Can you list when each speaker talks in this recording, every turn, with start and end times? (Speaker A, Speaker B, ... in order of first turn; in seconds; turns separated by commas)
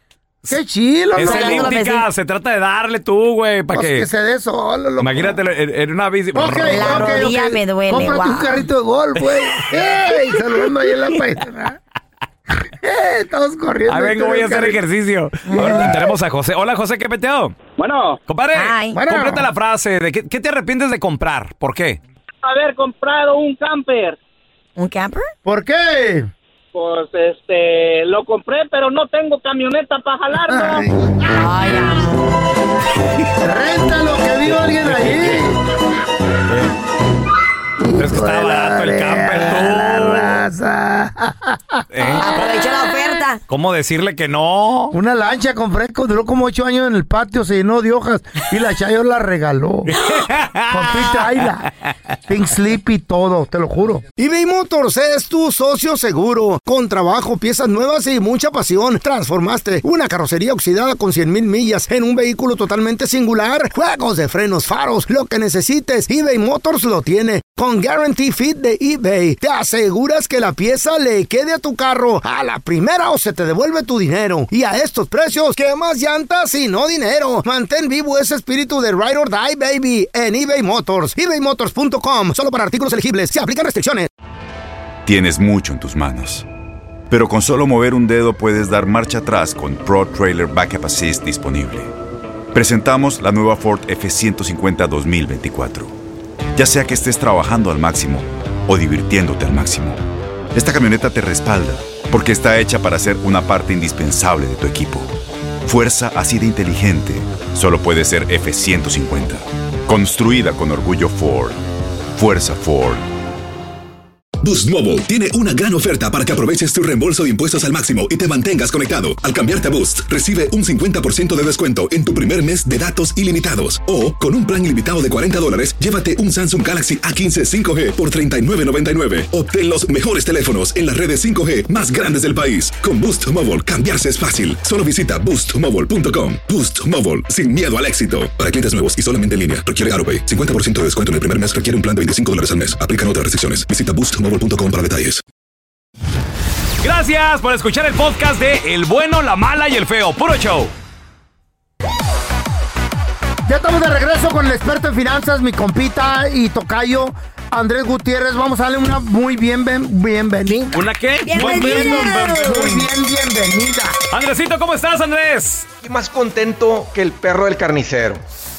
Speaker A: 0.5-1.8, Speaker B: 1.1-4.1, Speaker C: 1.2-2.0, Speaker A: 3.7-5.4, Speaker B: 5.0-7.2, Speaker A: 6.3-11.8, Speaker C: 6.7-8.7, Speaker A: 12.8-14.8, Speaker B: 13.9-17.6, Speaker C: 15.4-15.8, Speaker A: 15.5-16.1, Speaker D: 17.8-18.2, Speaker B: 18.2-22.0, Speaker C: 18.5-19.0, Speaker A: 18.9-19.5, Speaker D: 22.4-24.2, Speaker C: 24.8-25.3, Speaker A: 25.4-26.3, Speaker D: 26.7-30.8, Speaker A: 30.4-31.4, Speaker C: 31.3-32.3, Speaker A: 33.4-35.6, Speaker B: 34.8-35.4, Speaker A: 37.8-42.2, Speaker B: 38.0-40.4, Speaker B: 41.9-42.6, Speaker C: 42.2-43.4, Speaker B: 43.5-45.0, Speaker A: 44.9-50.0, Speaker B: 49.9-51.5, Speaker A: 50.7-51.7, Speaker A: 52.3-84.1, Speaker E: 85.0-86.5, Speaker E: 87.1-91.9, Speaker E: 92.5-95.9, Speaker E: 96.5-100.0, Speaker E: 100.5-111.6, Speaker E: 112.1-113.0, Speaker F: 114.4-145.2, Speaker B: 146.8-150.7, Speaker A: 153.4-164.0, Speaker B: 160.7-162.8, Speaker C: 161.2-162.7, Speaker B: 164.1-165.7, Speaker G: 165.8-168.2